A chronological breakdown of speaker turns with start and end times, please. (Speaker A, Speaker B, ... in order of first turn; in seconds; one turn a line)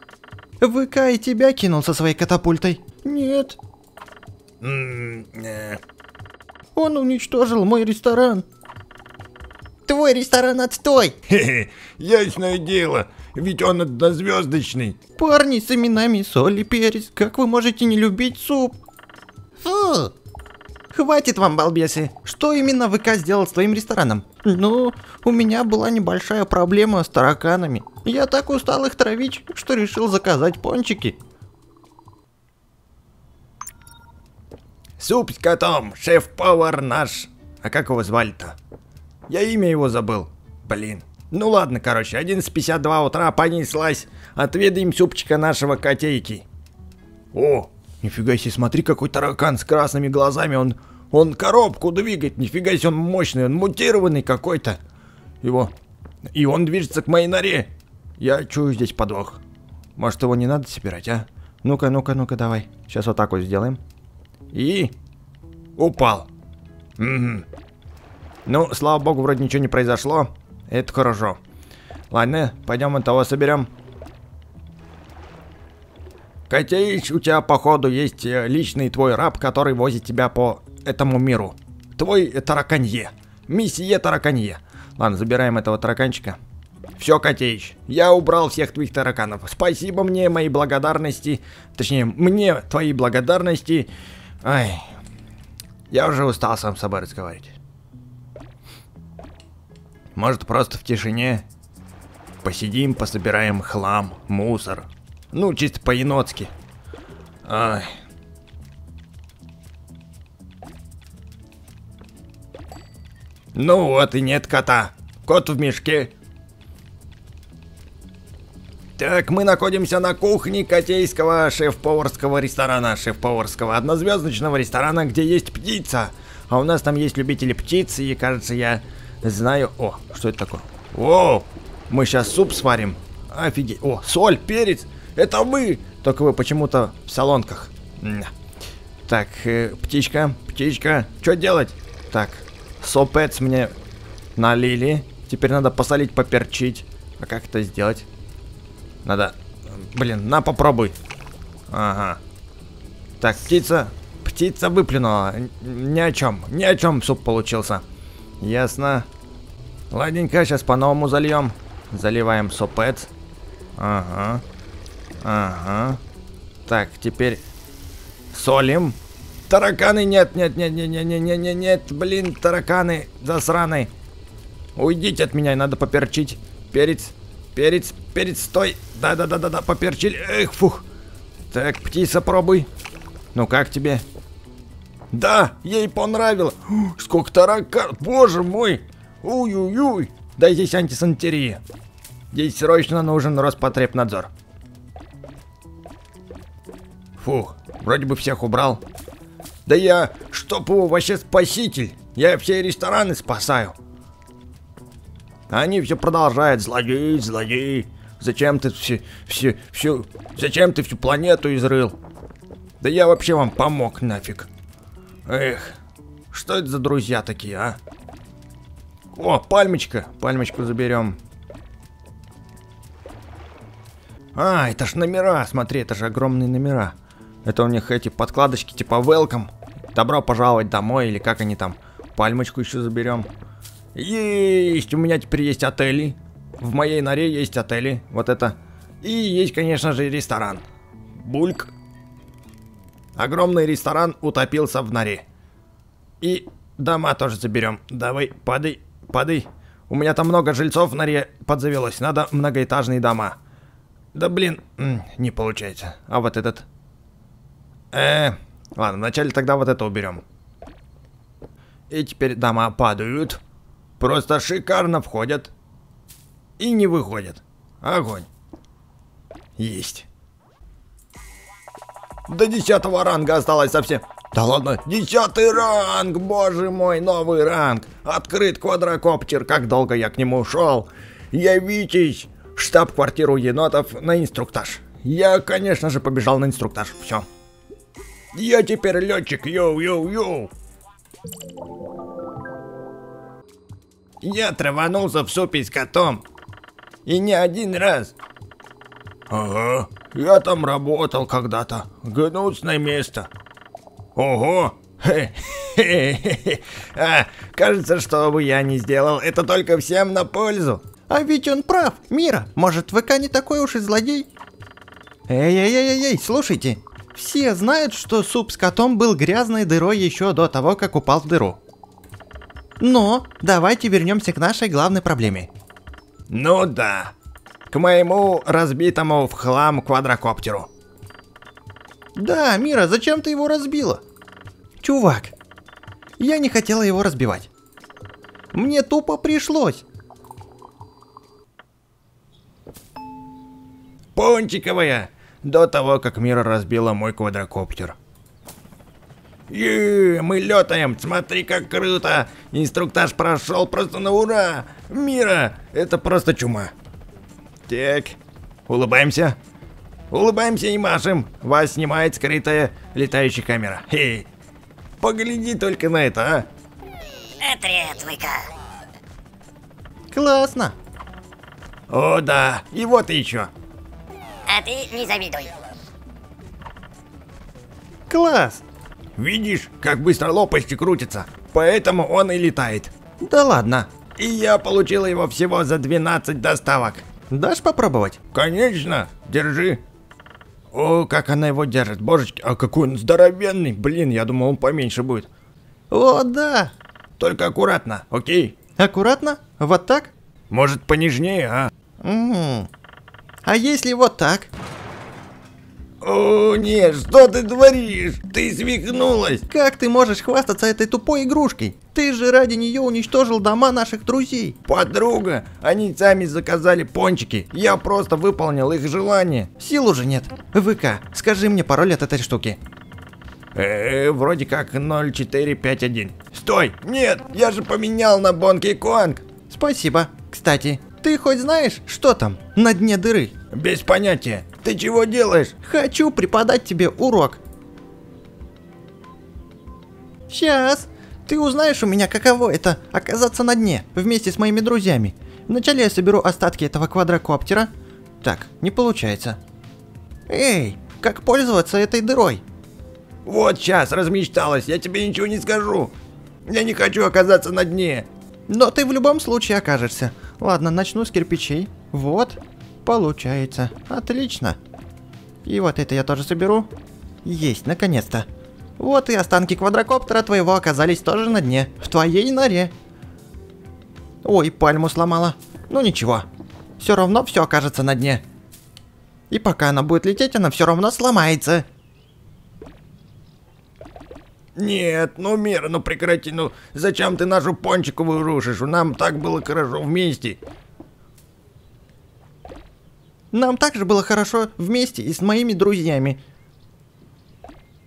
Speaker A: 0.6-3.6
Speaker B: 4.6-5.8
Speaker A: 6.8-8.4
Speaker A: 9.9-11.2
Speaker B: 11.3-15.0
Speaker A: 15.1-18.8
Speaker A: 19.6-20.1
Speaker A: 20.9-31.2
Speaker B: 35.0-38.6
Speaker B: 39.3-46.5
Speaker B: 47.3-54.8
Speaker B: 55.4-55.7
Speaker B: 56.3-59.4
Speaker B: 60.0-63.8
Speaker B: 64.5-65.0
Speaker B: 65.8-66.3
Speaker B: 67.0-67.5
Speaker B: 68.5-71.4
Speaker B: 72.1-73.7
Speaker B: 76.5-86.4
Speaker B: 87.0-93.9
Speaker B: 94.4-94.9
Speaker B: 95.9-97.6
Speaker B: 100.2-101.5
Speaker B: 102.4-106.5
Speaker B: 107.5-108.0
Speaker B: 113.5-116.1
Speaker B: 119.0-138.3
Speaker B: 139.1-143.7
Speaker B: 144.4-148.1
Speaker B: 149.0-151.0
Speaker B: 151.7-152.2
Speaker B: 153.2-157.8
Speaker B: 158.4-159.1
Speaker B: 159.9-163.1
Speaker B: 163.8-164.4
Speaker B: 165.2-166.0
Speaker B: 166.7-167.4
Speaker B: 168.3-169.0
Speaker B: 169.5-173.9
Speaker B: 174.8-180.8
Speaker B: 181.5-182.7
Speaker B: 183.3-184.0
Speaker B: 185.1-191.6
Speaker B: 192.3-194.3
Speaker B: 197.2-198.8
Speaker B: 199.7-203.8
Speaker B: 205.5-212.0
Speaker B: 212.8-214.5
Speaker B: 215.3-215.8
Speaker B: 216.3-217.8
Speaker B: 219.1-221.2
Speaker B: 224.3-233.3
Speaker B: 233.9-240.6
Speaker B: 241.2-241.7
Speaker B: 243.2-245.2
Speaker B: 246.2-253.4
Speaker B: 254.1-256.7
Speaker B: 257.9-260.2
Speaker B: 261.9-263.4
Speaker B: 264.0-265.5
Speaker B: 266.6-268.3
Speaker B: 269.6-270.1
Speaker B: 272.3-287.3
Speaker B: 288.3-290.5
Speaker B: 294.2-296.2
Speaker B: 297.1-298.1
Speaker B: 299.3-303.3
Speaker B: 304.2-310.9
Speaker A: 311.1-314.3
Speaker A: 315.3-321.6
Speaker A: 322.8-325.5
Speaker B: 326.3-327.1
Speaker B: 327.7-330.7
Speaker A: 332.1-334.0
Speaker A: 334.8-335.3
Speaker A: 336.2-337.5
Speaker A: 338.5-339.8
Speaker B: 344.1-348.0
Speaker B: 349.5-356.7
Speaker B: 357.7-359.4
Speaker B: 360.1-364.3
Speaker B: 365.0-366.5
Speaker C: 367.4-368.5
Speaker A: 370.1-370.8
Speaker B: 371.9-373.5
Speaker C: 374.5-375.6
Speaker A: 378.1-378.6
Speaker B: 379.2-382.9
Speaker A: 383.2-383.9
Speaker B: 383.9-387.1
Speaker A: 387.3-388.2
Speaker B: 388.3-389.8
Speaker B: 390.7-395.3
Speaker A: 395.9-396.8
Speaker B: 397.2-398.6
Speaker A: 398.8-400.1
Speaker B: 400.5-401.7
Speaker A: 402.0-402.7
Speaker A: 403.4-404.5
Speaker B: 406.0-409.4
Speaker A: 409.4-414.6
Speaker B: 414.6-419.6
Speaker A: 419.5-422.6
Speaker B: 423.6-429.3
Speaker A: 429.4-433.4
Speaker B: 433.5-435.6
Speaker A: 435.6-437.4
Speaker A: 440.3-447.7
Speaker A: 448.2-449.4
Speaker A: 450.3-452.4
Speaker B: 453.2-458.1
Speaker A: 458.5-464.6
Speaker A: 465.4-466.7
Speaker A: 467.2-468.3
Speaker A: 468.8-472.7
Speaker A: 474.2-476.3
Speaker A: 476.8-478.2
Speaker A: 479.3-481.7
Speaker B: 484.6-490.4
Speaker A: 493.3-496.2